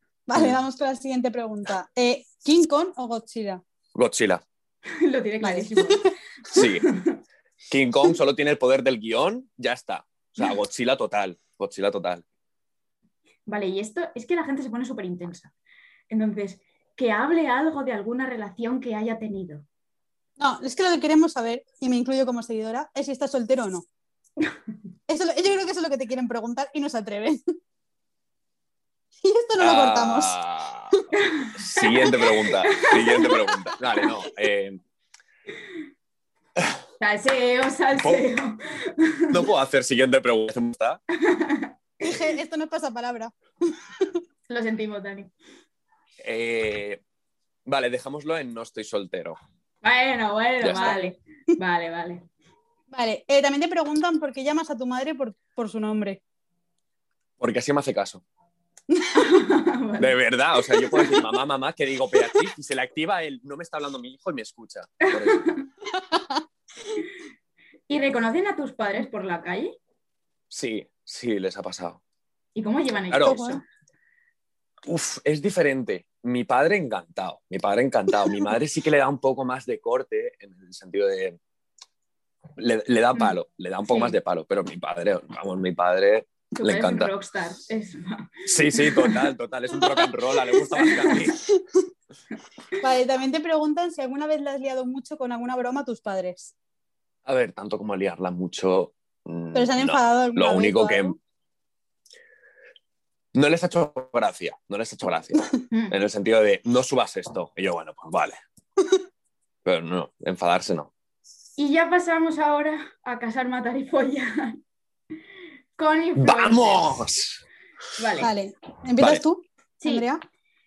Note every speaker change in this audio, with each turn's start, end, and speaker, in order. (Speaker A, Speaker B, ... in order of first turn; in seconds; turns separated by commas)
Speaker A: 0.3-3.6, Speaker B: 0.3-0.6, Speaker B: 3.9-4.4, Speaker C: 5.0-7.2, Speaker A: 5.4-6.0, Speaker B: 6.5-6.8, Speaker B: 7.7-12.2, Speaker C: 13.5-15.5, Speaker C: 16.1-19.6, Speaker A: 20.4-23.9, Speaker A: 25.1-27.4, Speaker A: 29.2-30.4, Speaker B: 29.6-31.0, Speaker C: 31.2-33.6, Speaker B: 31.5-34.8, Speaker C: 37.0-39.4, Speaker B: 39.3-41.0, Speaker C: 41.2-41.7, Speaker A: 42.0-44.1, Speaker C: 44.5-45.3, Speaker B: 46.2-47.0, Speaker B: 47.6-49.4, Speaker C: 49.8-52.2, Speaker B: 50.6-51.0, Speaker A: 52.9-56.2, Speaker B: 57.4-58.2, Speaker C: 59.1-60.2, Speaker B: 60.0-65.5, Speaker C: 65.1-65.7, Speaker A: 65.9-66.4, Speaker C: 67.9-69.7, Speaker B: 70.5-72.0, Speaker C: 72.5-73.6, Speaker B: 73.1-73.4, Speaker A: 73.2-73.6, Speaker B: 74.8-81.4, Speaker B: 82.6-87.1, Speaker C: 83.1-84.2, Speaker C: 86.5-89.3, Speaker B: 88.5-91.4, Speaker A: 90.6-91.8, Speaker C: 90.8-91.1, Speaker A: 92.8-96.5, Speaker B: 97.2-101.1, Speaker A: 99.5-101.2, Speaker B: 103.3-108.4, Speaker C: 105.7-106.0, Speaker B: 109.6-110.9, Speaker C: 111.6-114.6, Speaker C: 115.8-117.1, Speaker B: 116.2-117.4, Speaker C: 118.0-118.3, Speaker A: 118.2-120.2, Speaker C: 119.8-120.1